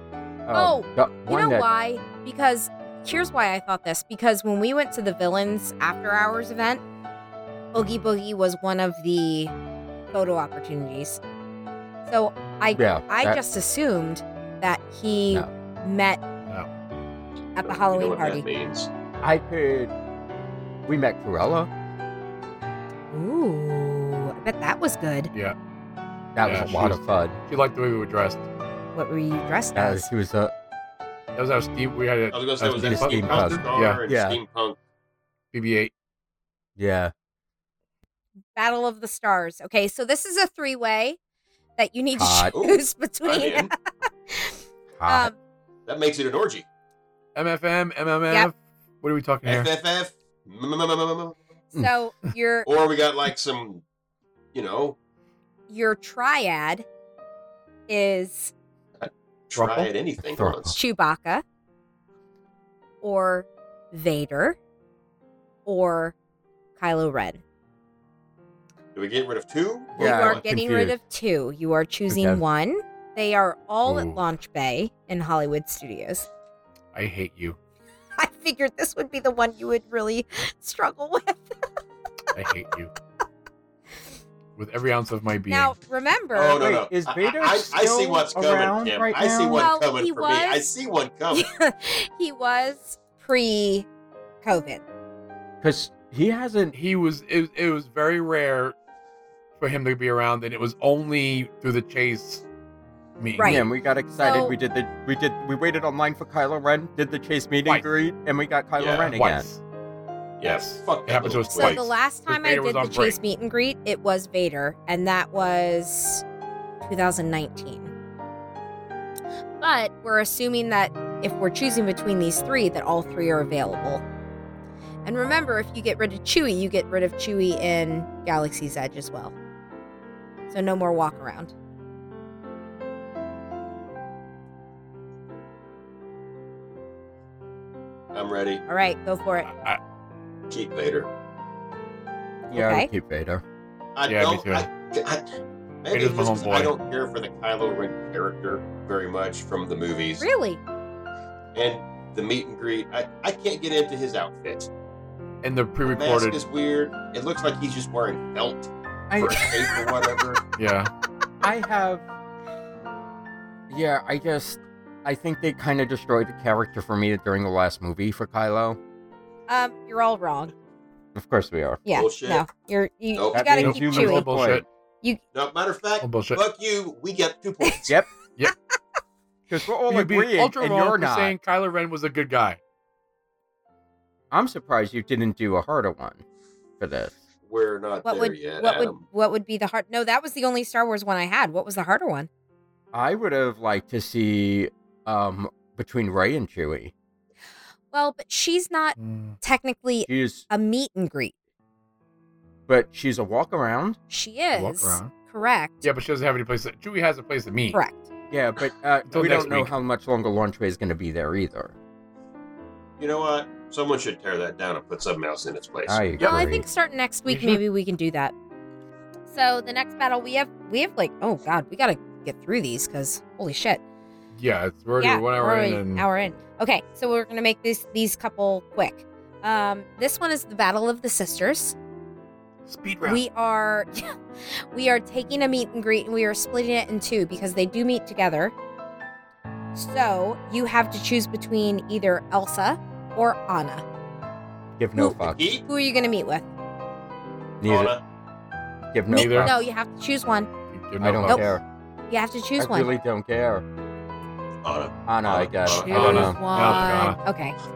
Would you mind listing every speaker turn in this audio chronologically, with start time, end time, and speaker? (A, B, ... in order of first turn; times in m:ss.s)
0:00.5-0:01.7 A
0:00.5-0:06.8 B
0:07.7-0:09.5 B
0:10.1-0:11.2 B
0:12.1-0:16.2 B
0:12.8-0:13.4 A
0:17.6-0:18.4 B
0:17.6-0:18.9 C
0:19.2-0:19.9 A
0:20.9-0:21.7 A
0:23.1-0:25.3 B
0:26.4-0:27.4 A
0:26.4-0:28.5 D
0:29.0-0:30.1 B
0:29.8-0:30.5 A
0:31.4-0:34.0 D
0:32.3-0:34.8 C
0:32.7-0:34.4 A
0:35.5-0:35.9 D
0:36.8-0:37.1 A
0:38.6-0:41.2 B
0:41.8-0:43.7 B
0:42.1-0:42.6 A
0:42.5-0:43.7 C
0:44.3-0:45.4 B
0:45.0-0:45.3 A
0:45.9-0:46.7 C
0:47.4-0:49.7 D
0:49.4-0:51.4 C
0:51.7-0:52.7 B
0:52.7-0:53.8 C
0:54.5-0:55.0 C
0:55.7-0:56.8 B
0:57.9-0:58.5 B
0:59.0-1:00.8 C
0:59.6-0:59.9 D
1:00.3-1:00.7 A
1:00.7-1:01.4 B
1:03.0-1:04.6 B
1:05.7-1:06.2 B
1:06.8-1:07.4 B
1:09.0-1:10.4 C
1:10.0-1:16.3 B
1:10.0-1:11.0 A
1:12.1-1:12.4 A
1:13.9-1:14.2 D
1:16.9-1:17.6 D
1:18.2-1:21.6 B
1:22.4-1:22.9 D
1:24.6-1:25.8 D
1:25.5-1:26.6 B
1:26.3-1:31.5 C
1:26.5-1:29.7 A
1:29.5-1:30.6 B
1:31.3-1:33.9 B
1:34.4-1:34.8 B
1:35.6-1:36.8 A
1:36.7-1:38.8 D
1:39.6-1:42.4 D
1:43.2-1:43.7 D
1:43.4-1:43.7 B
1:43.4-1:49.5 A
1:44.2-1:44.6 B
1:48.8-1:49.1 C
1:49.1-1:49.6 D
1:50.4-1:51.8 C
1:50.4-1:53.2 D
1:51.6-1:56.2 B
1:56.8-1:57.9 B
1:59.6-2:04.0 B
2:05.0-2:09.3 B
2:10.5-2:11.5 B
2:18.1-2:18.6 C
2:18.7-2:19.5 B
2:19.4-2:19.8 D
2:20.5-2:21.1 C
2:22.5-2:23.4 A
2:22.5-2:22.9 B
2:24.0-2:25.3 C
2:24.1-2:24.7 D
2:25.8-2:30.3 C
2:25.9-2:26.8 D
2:30.2-2:30.6 B
2:31.5-2:34.7 C
2:35.4-2:36.4 D
2:35.9-2:40.4 C
2:39.1-2:39.5 A
2:40.6-2:40.9 D
2:41.4-2:42.0 A
2:43.7-2:48.8 A
2:49.5-2:50.5 B
2:51.2-2:51.8 A
2:51.9-2:54.3 B
2:51.9-2:52.5 C
2:53.2-2:53.7 C
2:53.3-2:54.6 A
2:53.6-2:54.6 D
2:55.3-2:57.9 C
2:56.0-2:56.4 D
2:59.5-3:01.4 A
2:59.9-3:02.6 D
3:04.3-3:06.2 A
3:06.8-3:07.2 A
3:07.5-3:09.0 C
3:08.0-3:12.3 B
3:12.9-3:16.9 A
3:17.9-3:21.3 B
3:19.0-3:19.4 D
3:20.1-3:20.5 A
3:22.7-3:24.0 A
3:24.1-3:25.8 B
3:24.5-3:25.1 D
3:25.8-3:27.8 D
3:27.7-3:28.1 B
3:28.3-3:31.7 A
3:29.1-3:29.8 D
3:33.0-3:36.2 C
3:35.9-3:36.6 A
3:36.2-3:38.3 B
3:37.3-3:37.6 D
3:39.3-3:43.8 B
3:44.3-3:46.1 D
3:45.0-3:51.8 B
3:52.7-3:53.2 D
3:53.0-3:54.2 B
3:54.7-3:58.5 B
3:59.8-4:03.8 B
4:04.8-4:05.4 A
4:05.0-4:06.5 B
4:05.2-4:05.6 C
4:07.6-4:08.0 A
4:07.6-4:08.0 C
4:08.9-4:09.5 A
4:09.1-4:09.5 D
4:09.1-4:10.5 B
4:10.7-4:11.5 D
4:11.0-4:11.6 A
4:12.1-4:12.9 B
4:12.6-4:13.6 A
4:14.6-4:16.3 C
4:15.1-4:16.4 A
4:15.7-4:17.6 B
4:15.9-4:17.2 D